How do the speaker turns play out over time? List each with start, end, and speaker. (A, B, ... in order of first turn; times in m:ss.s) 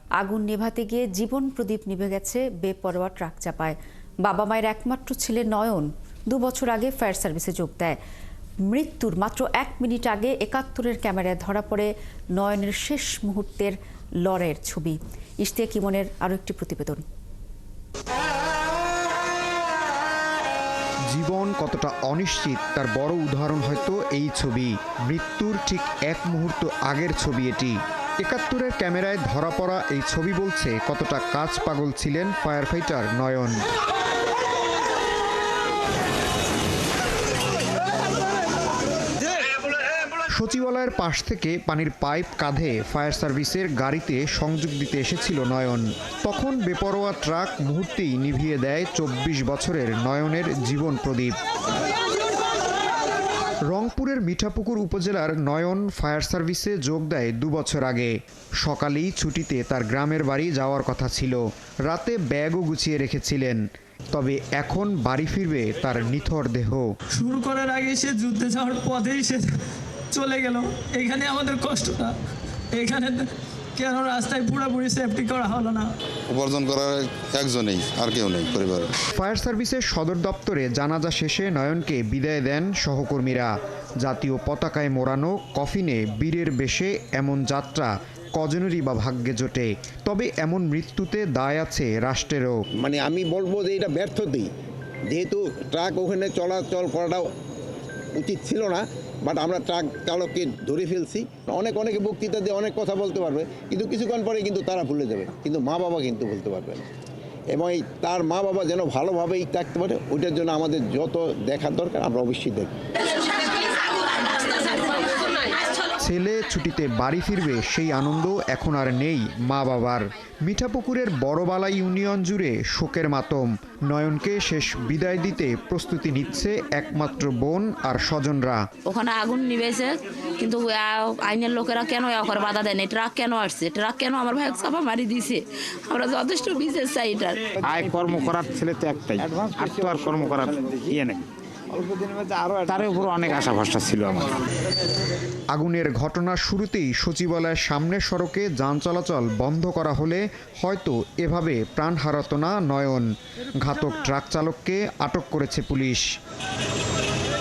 0:00.2-0:08.0 A
0:08.7-0:17.0 A
0:21.1-0:33.6 B
0:40.4-0:51.4 B
0:53.7-1:06.9 B
1:07.2-1:09.5 C
1:10.1-1:12.1 C
1:12.7-1:15.9 C
1:16.3-1:19.0 D
1:19.2-1:32.6 B
1:32.8-1:34.5 E
1:35.1-1:37.3 E
1:38.2-1:46.9 E
1:47.5-1:52.7 E
1:56.0-2:08.6 B
2:08.9-2:17.4 F
2:17.6-2:21.2 G
2:22.5-2:24.4 G
2:25.5-2:33.1 B
2:33.6-2:36.0 B